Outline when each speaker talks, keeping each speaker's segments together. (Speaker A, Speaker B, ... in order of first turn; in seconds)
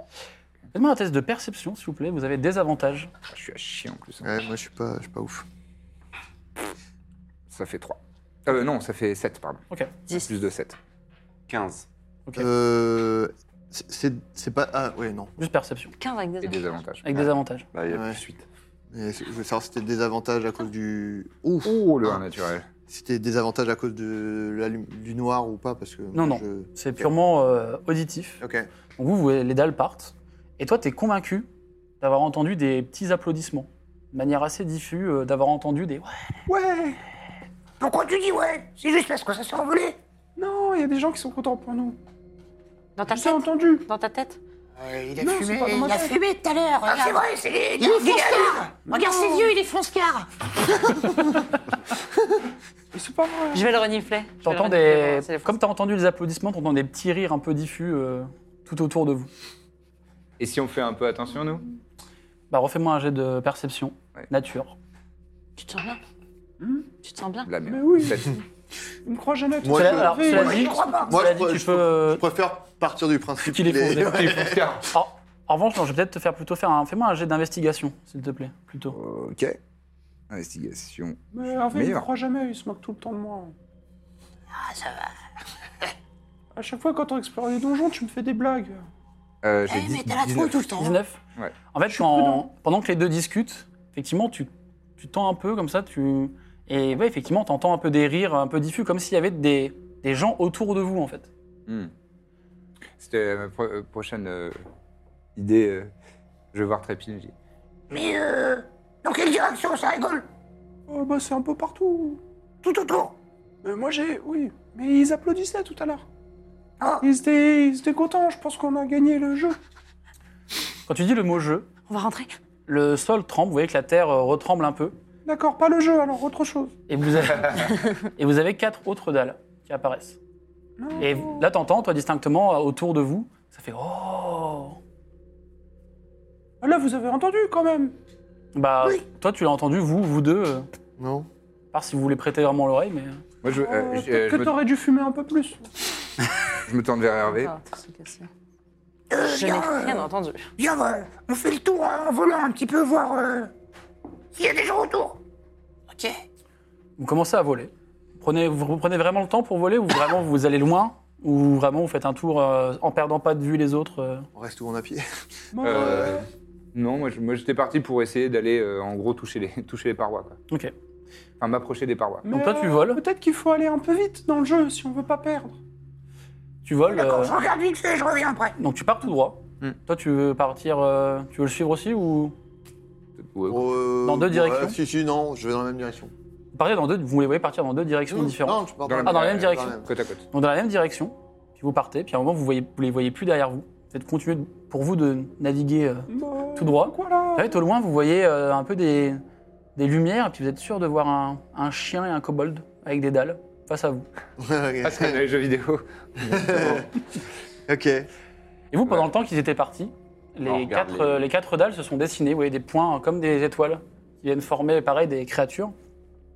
Speaker A: 0.7-3.1, 15.4-15.9, 17.0-17.7, 26.1-28.4, 29.0-31.5, 32.0-36.1, 54.4-59.3, 62.5-64.8, 69.7-72.2, 73.4-79.0, 90.8-91.2, 91.7-101.3, 120.9-121.7, 122.7-125.0, 126.9-130.2, 131.0-134.8, 138.5-140.7, 141.7-143.2, 157.0-164.3, 172.3-173.0, 176.6-177.3, 178.6-182.3, 184.0-184.8, 186.5-189.8, 190.3-199.2, 199.8-204.1, 208.7-215.7
Speaker B: 3.3-4.3, 7.5-10.8, 16.4-17.0, 21.6-22.6, 60.4-61.6, 67.4-68.4, 74.1-74.9, 78.9-79.6, 80.3-81.2, 81.7-82.1, 89.4-90.7, 101.7-101.9, 103.0-104.6, 105.3-105.9, 106.5-107.3, 143.4-144.6, 146.7-147.5, 165.6-166.2, 166.7-170.4, 171.4-172.2, 183.2-183.7, 188.8-190.2, 204.8-206.8
Speaker C: 4.2-5.4, 12.3-15.3, 17.9-18.2, 18.9-22.2, 22.9-27.1, 28.4-28.7, 69.6-74.8, 141.0-141.3, 164.3-165.1, 165.7-166.1, 183.5-186.1, 188.1-189.9, 204.4-205.2, 206.2-206.9, 207.7-208.1
Speaker D: 11.5-11.9, 17.7-18.4, 210.4-211.3
Speaker E: 16.0-16.7, 43.0-44.4, 53.5-55.6, 65.6-66.0, 67.0-67.5, 121.9-122.3, 147.3-148.3, 149.2-150.5
Speaker F: 36.5-37.0, 40.4-42.0, 43.1-43.9, 45.2-46.1, 48.9-49.5, 52.9-53.7, 67.6-68.4, 69.0-71.0, 81.3-83.5, 86.5-88.9, 91.9-92.4, 110.9-112.2, 113.6-116.0, 117.0-119.6, 125.2-126.8, 130.8-131.5, 136.6-137.9, 143.5-145.7, 165.5-166.2, 172.2-175.6, 196.1-197.6
Speaker G: 37.8-40.0, 46.9-48.7, 70.3-71.2, 107.9-110.3, 112.6-113.1, 116.8-117.0, 149.1-153.5, 154.3-155.2, 176.9-178.5
Speaker H: 44.8-47.2, 47.8-51.2, 84.5-85.1, 89.7-91.0, 155.9-156.2